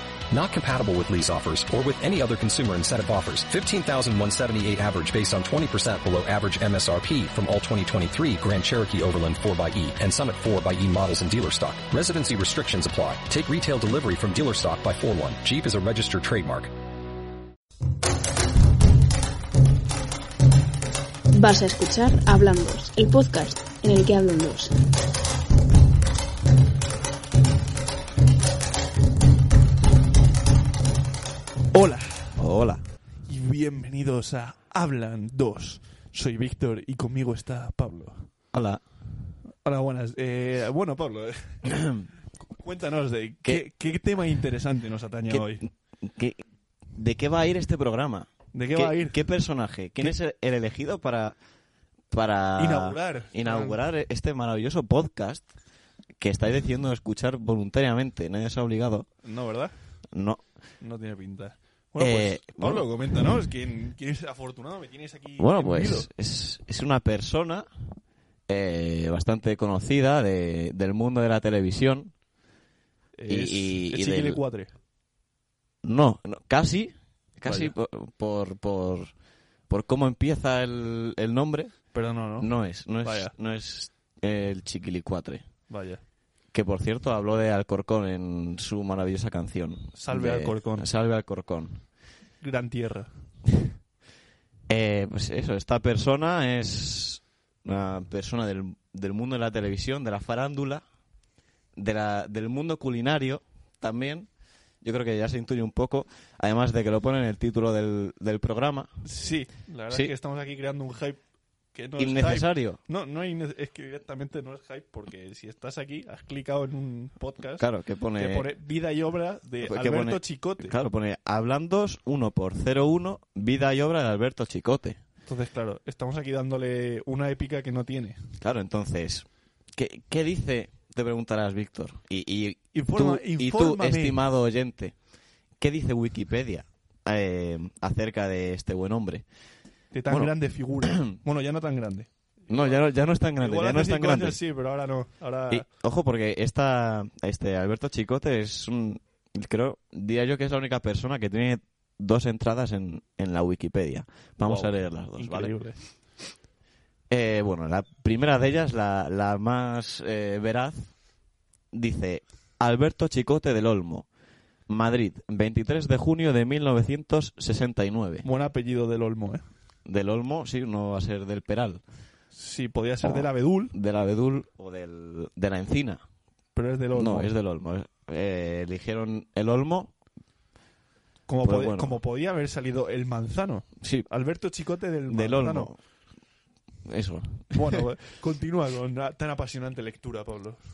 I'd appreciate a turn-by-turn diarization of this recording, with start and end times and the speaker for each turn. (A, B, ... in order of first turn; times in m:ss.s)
0:00.3-0:16.7 A
0:21.3-0:24.7 B
0:31.7-0:32.4 C
0:32.4-0:32.8 D
0:33.3-0:38.3 C
0:38.5-0:38.8 D
0:39.6-0:42.0 C
0:41.7-0:41.9 D
0:42.5-0:45.6 C
0:45.3-0:46.4 D
0:46.9-0:51.4 D
0:48.5-0:49.2 C
0:52.1-0:55.5 D
0:52.6-0:53.8 C
0:56.2-0:59.1 D
0:59.2-0:59.7 C
1:00.1-1:00.4 D
1:00.8-1:06.1 C
1:02.0-1:02.8 D
1:05.4-1:07.7 D
1:08.5-1:12.1 D
1:13.2-1:14.7 C
1:13.3-1:14.4 D
1:15.8-1:19.1 D
1:17.4-1:17.7 C
1:19.7-1:21.8 D
1:21.9-1:22.5 C
1:22.4-1:25.4 D
1:23.0-1:23.3 C
1:25.7-1:26.0 C
1:26.5-1:31.8 D
1:29.9-1:30.9 C
1:32.4-1:33.1 C
1:34.7-1:40.8 D
1:41.8-1:44.3 D
1:44.8-1:48.9 D
1:49.0-1:51.2 C
1:51.7-2:00.7 C
1:52.0-1:52.8 D
1:57.6-1:58.5 D
1:59.6-2:05.0 D
2:05.3-2:08.2 C
2:08.4-2:14.9 D
2:12.7-2:14.2 C
2:15.6-2:19.2 D
2:19.9-2:22.8 C
2:20.8-2:21.1 D
2:22.5-2:24.4 D
2:23.4-2:25.6 C
2:25.5-2:35.6 D
2:34.4-2:35.8 C
2:37.1-2:40.9 D
2:41.7-2:44.1 D
2:44.7-2:48.2 D
2:48.2-2:49.4 C
2:49.8-2:51.8 D
2:52.3-2:53.7 C
2:53.0-2:56.0 D
2:56.5-2:57.3 C
2:56.9-2:59.9 D
3:01.3-3:05.7 C
3:01.4-3:02.0 D
3:03.8-3:04.1 D
3:05.1-3:05.8 D
3:06.8-3:07.8 D
3:07.5-3:10.6 C